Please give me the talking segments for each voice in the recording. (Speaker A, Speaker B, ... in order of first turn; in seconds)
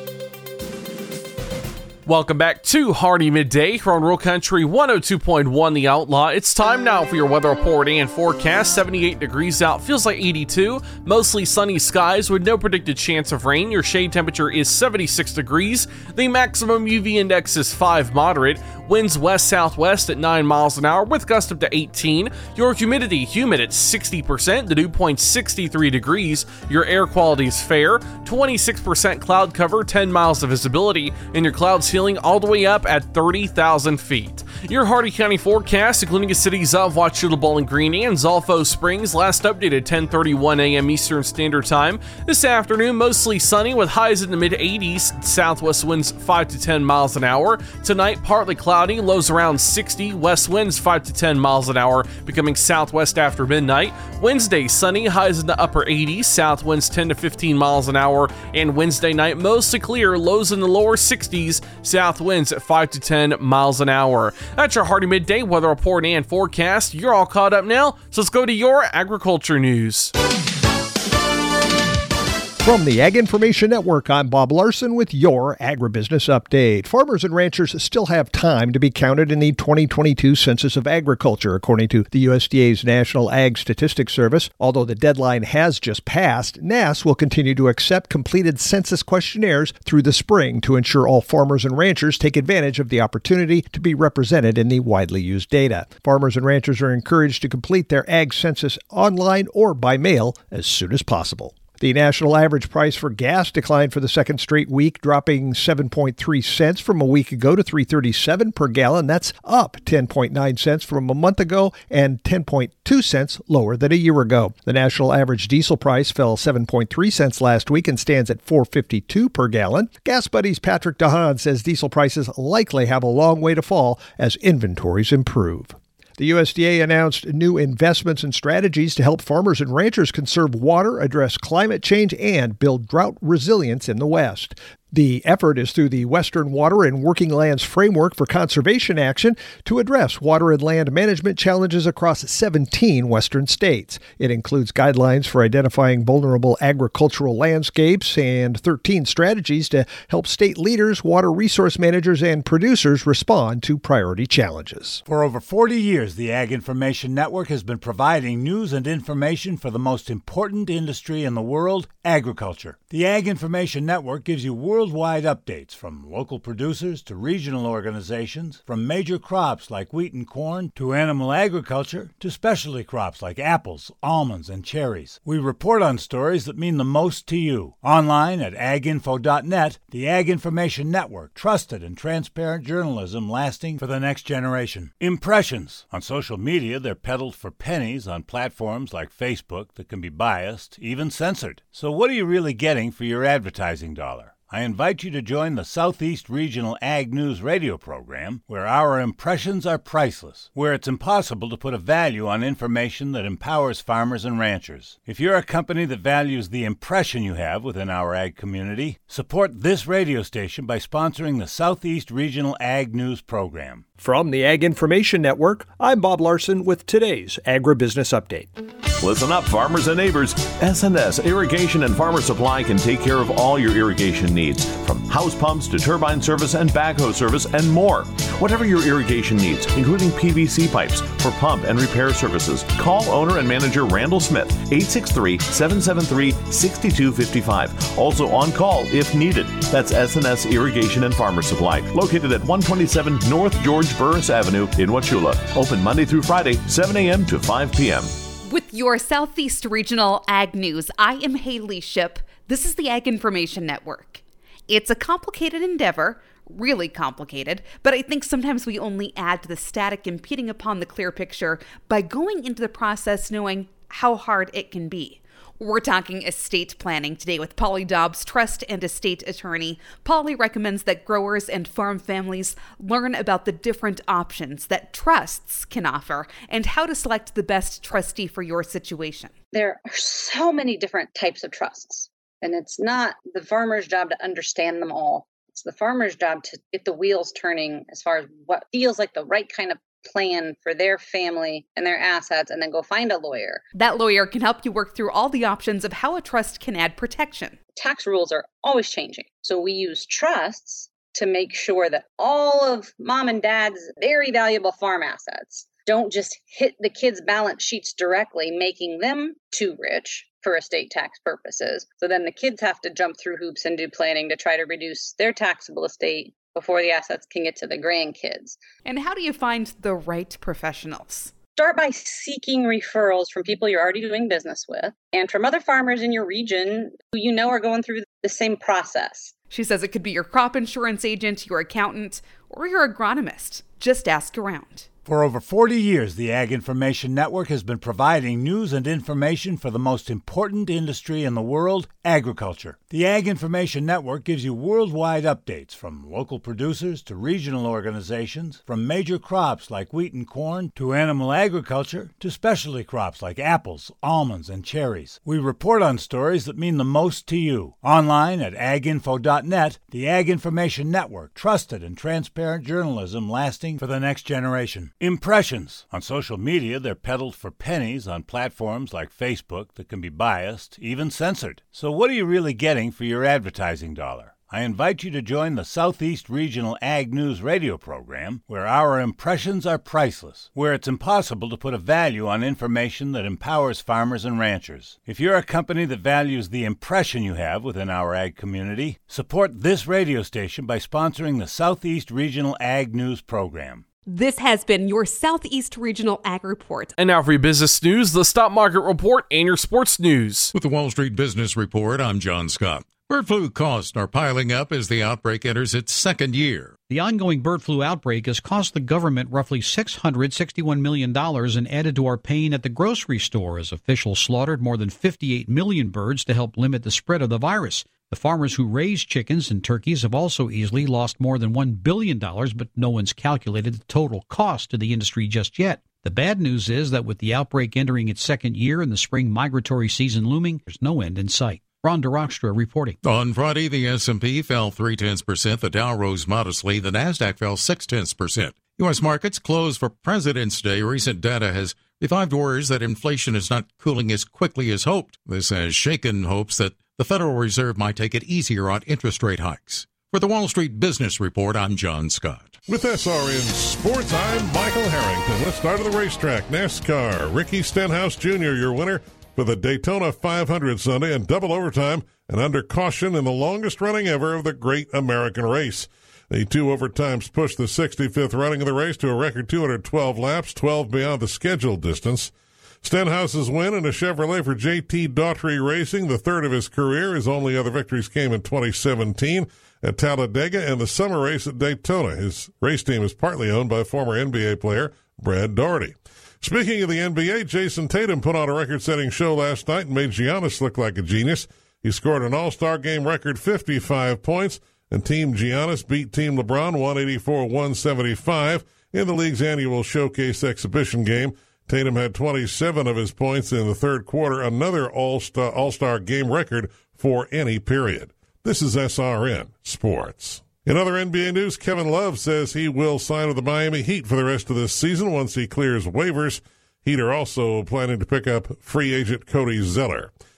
Speaker A: 2.0-70.1, 397.0-400.5
Speaker B: 72.6-155.0, 214.0-218.5
Speaker C: 155.1-213.8, 335.1-393.8
Speaker D: 219.0-248.1
Speaker E: 248.4-279.3, 293.8-297.6, 318.9-321.3, 329.5-334.9, 394.1-396.9
Speaker F: 279.5-293.6, 297.8-318.6, 321.6-329.3
Speaker G: 400.5-406.7, 433.0-452.6
Speaker H: 407.0-432.9
Speaker I: 452.7-520.1